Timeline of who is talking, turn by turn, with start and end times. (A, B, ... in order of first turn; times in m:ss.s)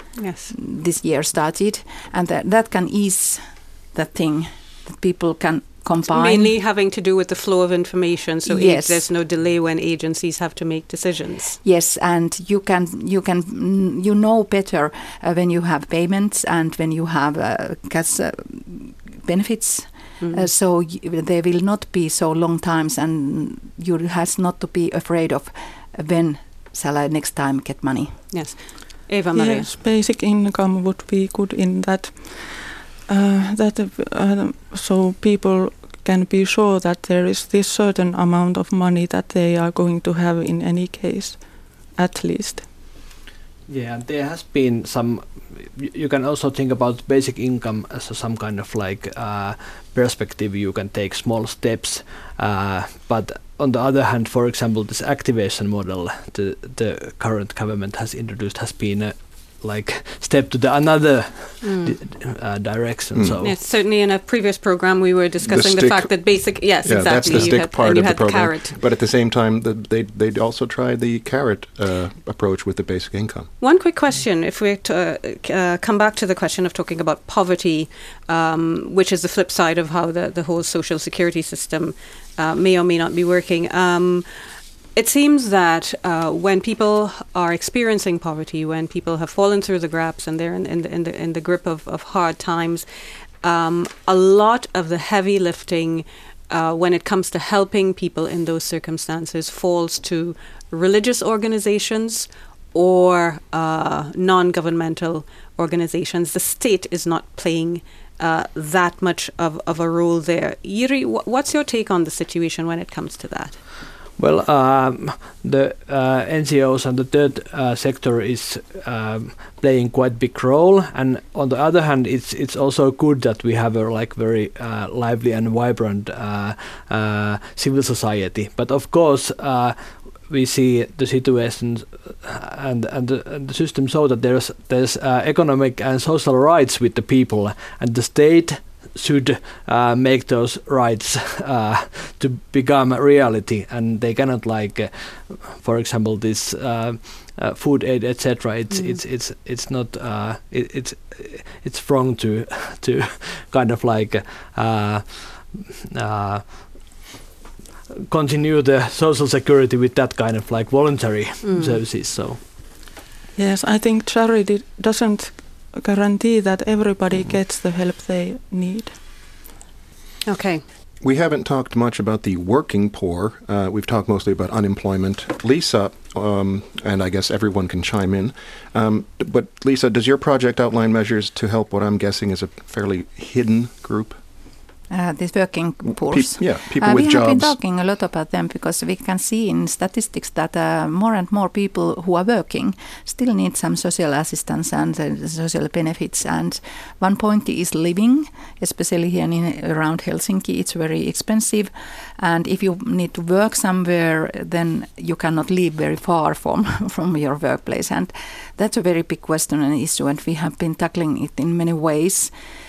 0:00.2-0:00.5 A
0:00.5-0:06.5 B
0:06.1-0:11.6 A
0:08.4-0:09.1 B
0:11.6-0:28.2 B
0:20.2-0:20.5 A
0:28.3-0:29.7 A
0:29.3-0:42.7 C
0:43.7-1:03.6 D
1:01.6-1:02.0 A
1:03.4-1:08.8 A
1:05.4-1:13.5 E
1:13.6-1:32.8 A
1:33.4-1:53.6 A
1:54.2-2:37.0 D
2:28.7-2:29.0 A
2:38.1-2:42.4 D
2:41.4-2:41.8 A
2:43.4-2:49.0 C
2:50.3-2:50.6 A
2:51.0-3:04.2 E
3:04.9-3:32.3 B
3:05.9-3:07.6 E